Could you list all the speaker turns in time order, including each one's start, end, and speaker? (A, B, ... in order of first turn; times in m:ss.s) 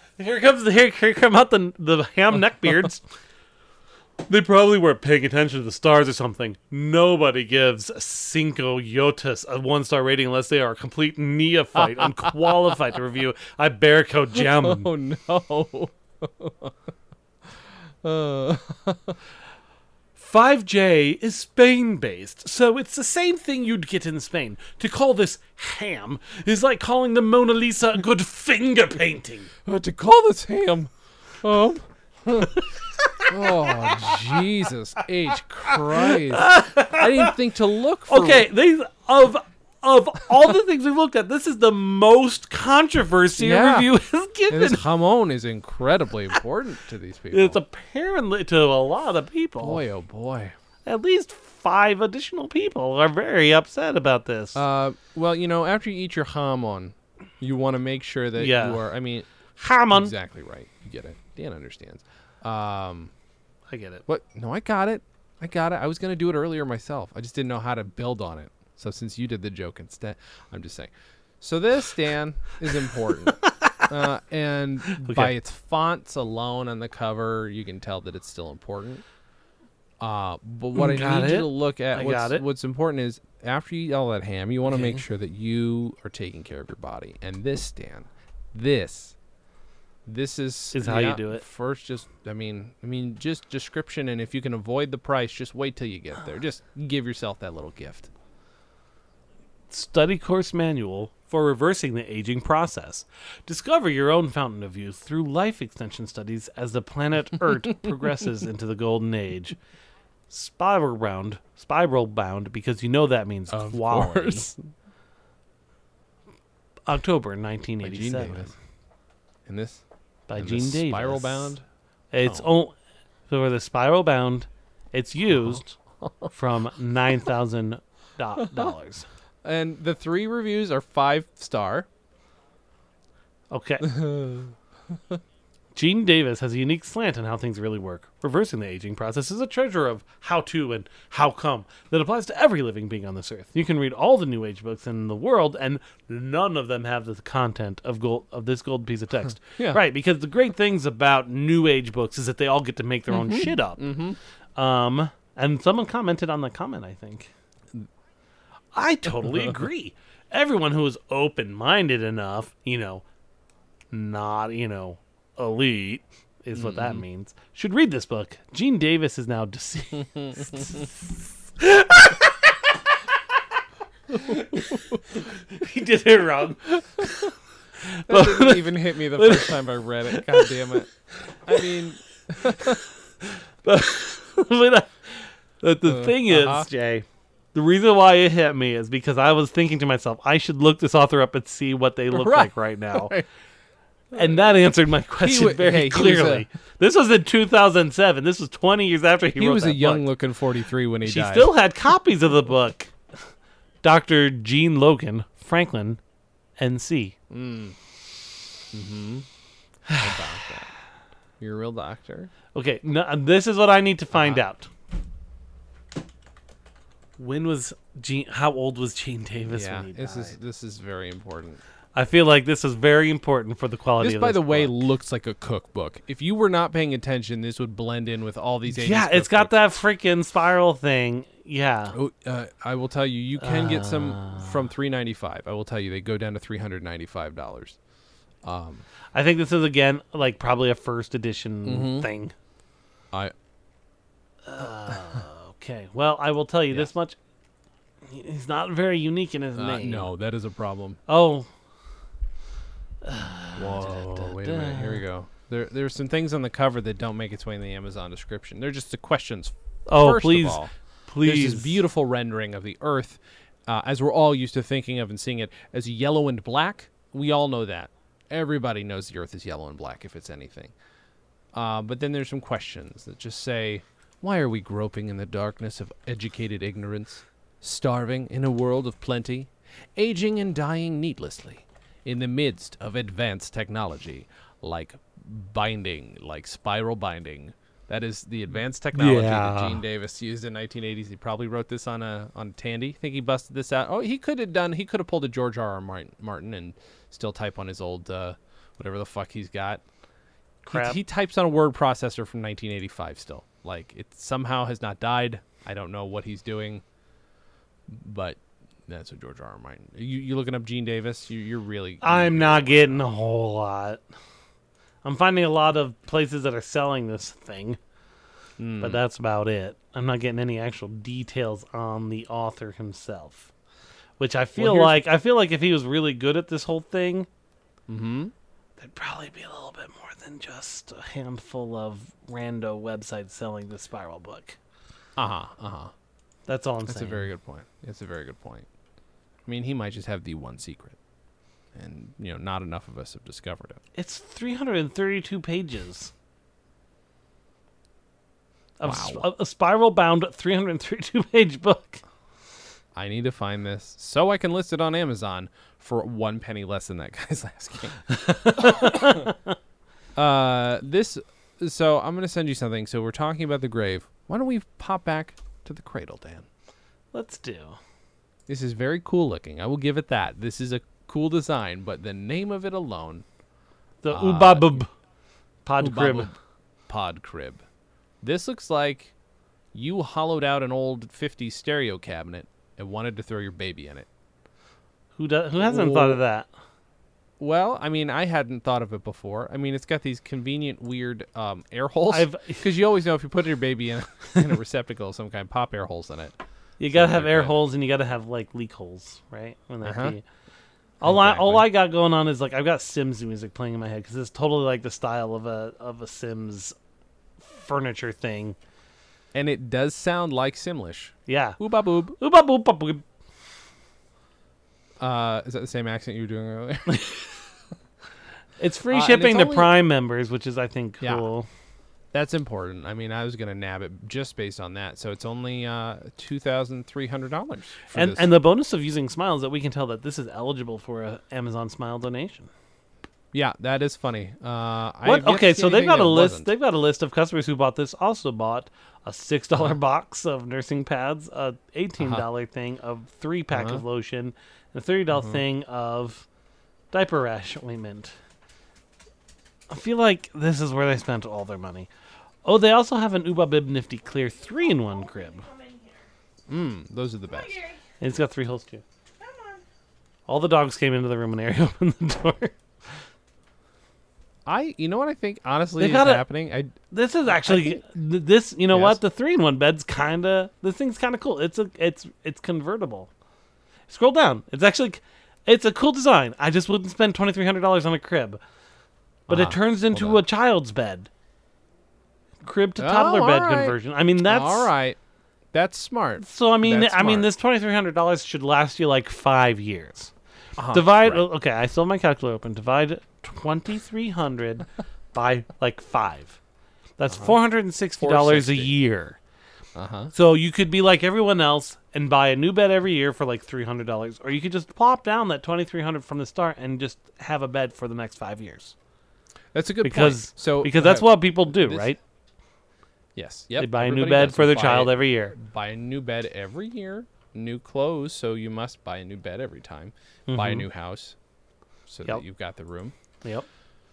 0:00.2-0:03.1 A
0:04.3-0:14.9 A
0:11.8-0:12.8 B
0:14.4-0:16.7 B
0:18.0-0:19.2 B
0:20.2-0:29.5 A
0:29.6-0:32.7 B
0:32.6-0:34.2 A
0:33.2-0:38.5 B
0:35.7-0:37.4 A
0:38.1-0:44.8 A
0:43.4-0:43.9 B
0:44.5-0:47.6 B
0:47.3-0:49.8 A
0:49.6-0:50.6 B
0:50.9-0:54.6 A
0:54.6-0:59.3 B
0:58.4-0:58.8 A
0:59.6-1:00.1 A
0:59.9-1:03.1 B
1:03.7-1:04.0 A
1:04.1-1:19.0 B
1:13.3-1:13.8 A
1:14.9-1:15.3 A
1:20.0-1:29.2 B
1:20.7-1:22.4 A
1:24.7-1:25.0 A
1:30.1-1:38.1 B
1:30.7-1:31.4 A
1:39.7-1:49.6 A
1:50.3-1:54.6 A
1:53.5-1:54.6 B
1:56.9-1:58.5 A
1:57.8-1:58.5 B
1:59.5-1:59.8 B
2:00.3-2:01.5 A
2:00.4-2:01.6 B
2:02.1-2:02.7 A
2:02.2-2:02.5 B
2:03.3-2:05.8 A
2:06.3-2:09.1 A
2:09.4-2:11.9 B
2:13.5-2:14.0 A
2:13.8-2:14.6 B
2:15.8-2:33.9 A
2:33.1-2:34.2 B
2:34.6-2:37.3 A
2:38.7-2:43.0 A
2:43.9-2:50.9 A
2:46.5-2:47.0 B
2:50.2-2:50.8 B
2:51.6-2:52.7 A
2:54.1-3:00.8 A
2:58.1-3:00.9 B
3:01.5-3:02.8 B
3:02.5-3:13.1 A
3:05.8-3:06.7 B
3:12.1-3:13.3 B
3:14.1-3:20.1 A
3:15.2-3:16.5 B
3:19.4-3:21.5 B
3:21.0-3:22.9 A
3:23.8-3:26.0 A
3:26.6-3:27.2 A
3:27.3-3:27.8 B
3:28.7-3:29.3 B
3:30.0-3:30.7 B
3:31.4-3:32.3 B
3:32.5-3:34.7 A
3:34.1-3:34.4 B
3:37.2-3:40.4 A
3:39.5-3:41.6 B
3:42.0-3:44.8 A
3:44.0-3:49.7 B
3:48.7-3:52.0 A
3:51.9-3:57.8 B
3:53.4-3:54.6 A
3:58.4-3:58.8 B
3:59.1-4:02.3 A
4:01.6-4:02.1 B
4:04.5-4:07.2 A
4:08.0-4:10.1 A
4:09.6-4:11.0 B
4:11.1-4:11.5 A
4:13.0-4:15.0 A
4:13.6-4:20.7 B
4:19.9-4:21.8 A
4:21.2-4:30.7 B
4:31.5-4:59.8 B
4:48.9-4:49.8 A
5:00.6-5:01.0 A
5:00.7-5:06.8 B
5:07.9-5:13.1 B
5:12.0-5:14.0 A
5:15.0-5:17.8 A
5:18.6-5:19.0 B
5:18.8-5:23.5 A
5:24.2-5:27.3 A
5:24.6-5:25.0 B
5:27.9-5:28.3 B
5:28.8-5:34.6 A
5:35.2-5:35.9 B
5:36.5-5:37.3 A
5:36.9-5:38.7 B
5:39.5-5:41.0 B
5:41.8-5:43.8 B
5:44.0-5:46.1 A
5:48.8-5:52.0 A
5:48.8-5:49.3 B
5:53.0-5:59.3 B
5:58.1-5:59.4 A
6:00.2-6:06.5 B
6:07.1-6:07.8 A
6:08.5-6:13.2 B
6:14.0-6:14.9 A
6:14.1-6:14.8 B
6:15.6-6:16.3 A
6:15.8-6:16.4 B
6:16.9-6:17.6 B
6:18.2-6:19.1 B
6:19.7-6:24.1 B
6:25.2-6:26.5 A
6:25.6-6:26.2 B
6:27.4-6:36.4 B
6:32.1-6:32.6 A
6:36.8-6:40.2 A
6:36.9-6:37.6 B
6:39.8-6:40.2 B
6:41.0-6:46.8 A
6:41.0-6:41.7 B
6:47.4-6:48.6 A
6:49.3-6:52.2 B
6:51.3-6:51.6 A
6:52.2-6:53.0 A
6:55.0-6:57.0 B
6:56.9-6:57.2 A
6:58.6-7:01.5 A
6:58.9-6:59.7 B
7:01.0-7:01.3 B
7:02.1-7:08.3 B
7:07.9-7:12.5 A
7:13.3-7:16.5 B
7:15.0-7:26.3 A
7:22.0-7:22.2 B
7:23.5-7:23.8 B
7:25.1-7:25.4 B
7:26.9-7:28.2 A
7:29.7-7:31.9 A
7:32.4-7:35.5 A
7:34.6-7:36.1 C
7:36.5-7:37.7 B
7:37.3-7:37.8 C
7:38.0-7:38.8 A
7:39.2-7:39.6 C
7:40.3-7:42.6 A
7:44.5-7:46.8 B
7:45.8-7:46.3 A
7:46.9-7:53.1 A
7:47.3-7:47.8 B
7:48.7-7:49.0 B
7:53.9-7:58.4 A
7:59.3-8:00.2 B
7:59.3-8:01.1 A
8:02.4-8:04.7 A
8:02.8-8:05.0 B
8:05.5-8:07.3 B
8:06.2-8:10.1 A
8:10.6-8:11.2 B
8:10.7-8:16.4 A
8:17.0-8:19.2 A
8:18.0-8:18.7 B
8:19.8-8:20.1 B
8:20.1-8:28.8 A
8:29.5-8:31.9 B
8:29.8-8:32.0 A
8:33.2-8:41.2 B
8:33.5-8:35.4 A
8:40.3-8:40.7 A
8:41.9-8:43.0 B